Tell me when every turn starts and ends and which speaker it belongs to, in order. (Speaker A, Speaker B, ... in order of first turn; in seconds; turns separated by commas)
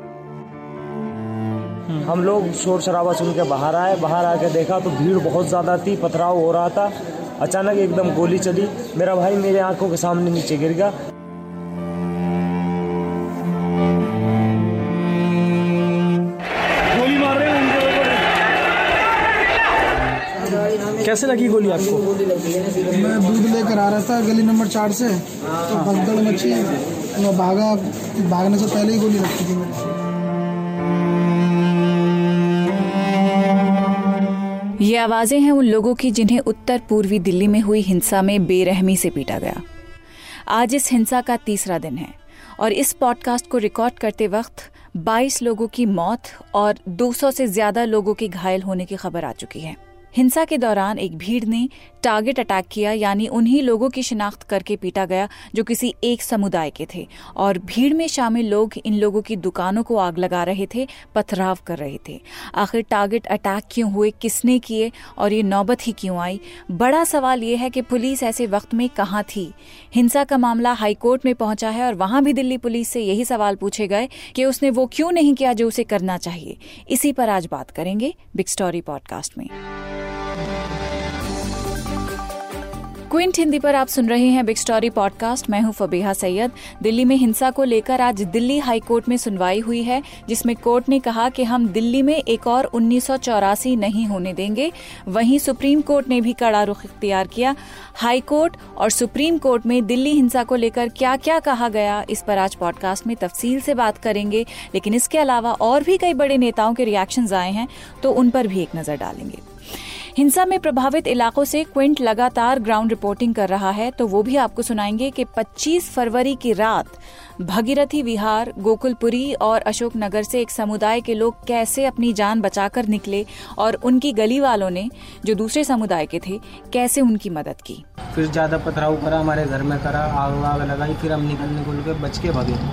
Speaker A: 2.0-10.9, Speaker B: 17.1-17.8, Speaker B: 21.0-22.0, Speaker C: 23.0-25.2, Speaker B: 25.7-26.0, Speaker C: 25.8-26.6, Speaker C: 27.2-29.7, Speaker D: 34.8-39.6, Speaker D: 40.5-79.5, Speaker D: 83.1-109.4, Speaker D: 110.2-127.8, Speaker E: 128.1-132.6